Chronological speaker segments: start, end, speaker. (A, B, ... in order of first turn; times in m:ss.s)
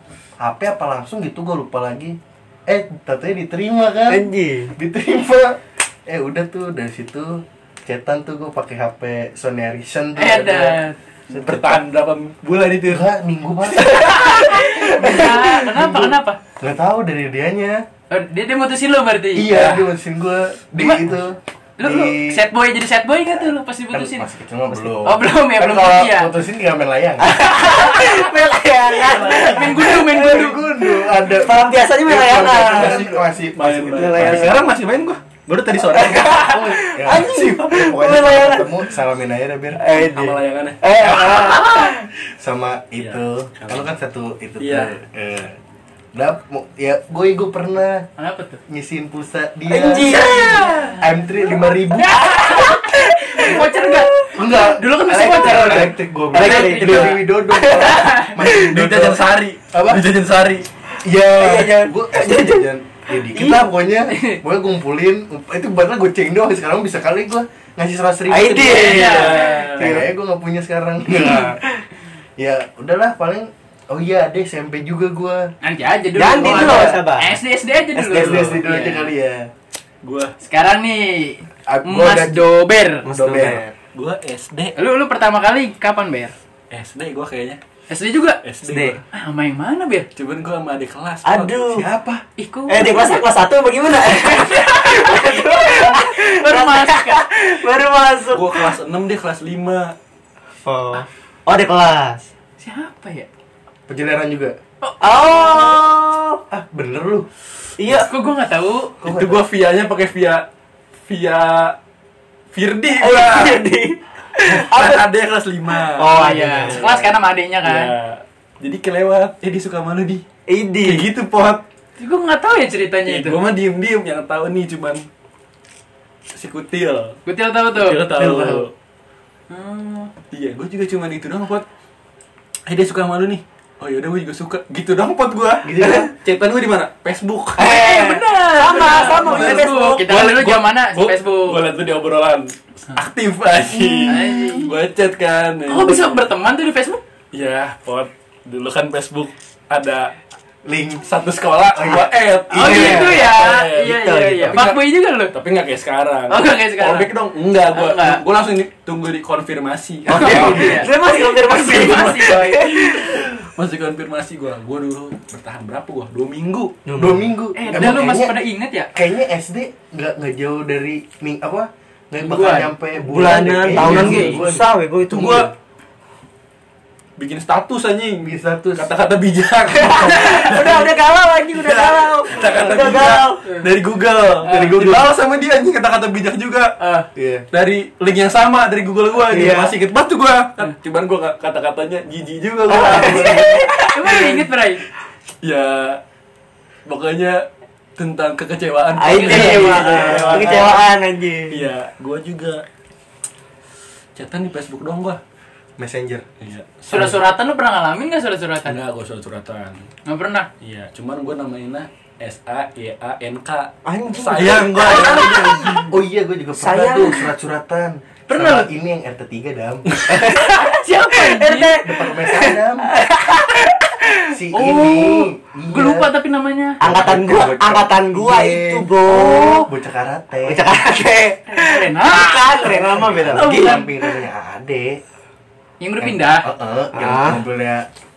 0:00.4-0:11.8 A
0:04.1-0:04.7 B
0:10.2-0:11.0 C
0:11.3-0:13.1 D
0:12.9-0:14.3 A
0:13.8-0:15.6 B
0:13.9-0:16.4 C
0:15.0-0:17.8 A
0:18.1-0:19.7 C
0:19.3-0:22.4 A
0:19.5-0:19.8 D
0:20.8-0:21.1 C
0:21.8-0:24.3 C
0:23.9-0:27.4 A
0:25.0-0:26.3 C
0:27.2-0:30.5 B
0:27.5-0:28.3 C
0:29.1-0:34.7 A
0:29.1-0:30.6 C
0:31.3-0:33.1 B
0:32.4-0:37.4 D
0:33.7-0:34.7 B
0:35.8-0:38.8 B
0:36.3-0:39.8 A
0:39.8-0:42.1 B
0:39.9-0:41.9 D
0:41.2-0:41.6 A
0:42.4-0:45.6 A
0:43.0-0:43.9 D
0:44.6-0:44.9 D
0:46.1-0:48.0 A
0:48.2-0:48.6 C
0:48.7-0:52.3 A
0:49.7-0:50.9 B
0:50.0-0:50.7 D
0:50.1-0:51.0 C
0:52.0-0:55.9 C
0:52.1-0:54.3 B
0:54.3-1:00.0 A
0:55.3-0:58.8 B
0:56.3-0:57.2 D
0:57.7-0:58.4 C
0:58.5-1:00.6 D
1:01.0-1:11.6 A
1:01.4-1:02.7 B
1:03.2-1:03.6 B
1:04.1-1:04.4 C
1:08.3-1:10.1 B
1:08.5-1:10.0 D
1:08.7-1:09.7 C
1:12.4-1:15.5 A
1:15.6-1:19.1 C
1:16.2-1:17.4 B
1:16.4-1:16.9 A
1:17.9-1:18.6 B
1:18.1-1:19.5 A
1:20.0-1:20.3 D
1:20.4-1:23.0 C
1:21.7-1:22.4 A
1:23.0-1:23.6 B
1:23.1-1:23.7 A
1:23.9-1:24.7 D
1:24.8-1:26.3 C
1:26.7-1:27.6 D
1:27.9-1:28.4 C
1:28.4-1:29.0 D
1:28.6-1:29.0 B
1:29.1-1:30.1 C
1:30.1-1:31.6 D
1:31.2-1:31.9 B
1:31.7-1:32.2 A
1:32.4-1:33.2 C
1:32.7-1:38.7 B
1:34.3-1:37.2 C
1:38.3-1:39.9 D
1:40.6-1:42.3 B
1:42.6-1:43.3 C
1:43.9-1:44.6 A
1:44.8-1:45.8 C
1:45.0-1:46.4 B
1:46.5-1:47.3 A
1:47.8-1:48.1 B
1:48.0-1:48.9 C
1:49.0-1:49.4 A
1:49.0-1:50.4 D
1:51.1-1:51.8 D
1:52.5-1:53.6 D
1:52.9-1:55.1 B
1:54.4-2:00.2 D
1:55.7-1:56.8 B
1:56.1-1:57.9 C
2:00.5-2:01.1 B
2:00.8-2:01.6 D
2:02.0-2:03.4 C
2:03.0-2:05.0 D
2:06.3-2:07.2 D
2:07.2-2:08.0 C
2:07.7-2:08.7 D
2:08.2-2:08.6 A
2:09.5-2:10.1 C
2:10.3-2:11.6 D
2:12.6-2:17.7 D
2:15.6-2:16.1 A
2:17.6-2:20.1 B
2:17.6-2:21.6 C
2:18.6-2:26.2 D
2:24.0-2:24.7 C
2:25.7-2:27.0 C
2:27.3-2:30.1 D
2:30.6-2:31.0 A
2:31.0-2:40.9 D
2:31.7-2:33.2 A
2:32.5-2:35.3 C
2:32.6-2:34.6 B
2:36.3-2:37.1 C
2:37.7-2:38.2 C
2:40.1-2:43.2 B
2:40.1-2:42.6 C
2:40.3-2:40.8 A
2:41.4-2:46.8 D
2:46.8-2:47.3 B
2:47.0-2:48.4 A
2:47.6-2:48.9 C
2:48.9-2:55.5 A
2:52.2-2:52.7 C
2:53.0-2:55.5 B
2:53.7-2:54.2 D
2:53.7-2:54.4 C
2:55.1-2:55.5 D
2:57.2-3:00.9 D
2:58.2-2:58.9 A
2:59.7-3:03.4 B
3:01.5-3:06.7 D
3:04.4-3:05.1 A
3:04.4-3:04.8 C
3:06.8-3:07.1 C
3:07.2-3:07.4 A
3:07.5-3:14.3 D
3:09.2-3:09.8 B
3:12.7-3:14.2 B
3:12.7-3:13.7 A
3:13.8-3:14.8 C
3:15.4-3:16.0 D
3:16.8-3:17.4 D
3:18.0-3:20.8 D
3:19.0-3:21.6 B
3:19.0-3:20.4 C
3:19.6-3:20.6 A
3:21.5-3:22.6 D
3:24.2-3:25.2 D
3:25.8-3:26.2 A
3:26.4-3:27.2 D
3:26.9-3:28.8 C
3:28.6-3:29.8 D
3:30.0-3:30.5 C
3:30.6-3:35.9 D
3:33.8-3:35.9 B
3:35.8-3:39.8 A
3:36.5-3:37.3 B
3:38.3-3:38.7 C
3:40.1-3:44.7 B
3:40.2-3:41.8 C
3:41.7-3:42.9 A
3:44.3-3:46.1 A
3:44.5-3:46.8 C
3:46.8-3:49.7 B
3:46.8-3:50.7 A
3:50.4-3:53.8 B
3:51.5-3:53.9 C
3:52.7-3:55.0 A
3:55.8-3:56.4 C
3:56.0-3:57.9 A
3:56.9-3:57.4 B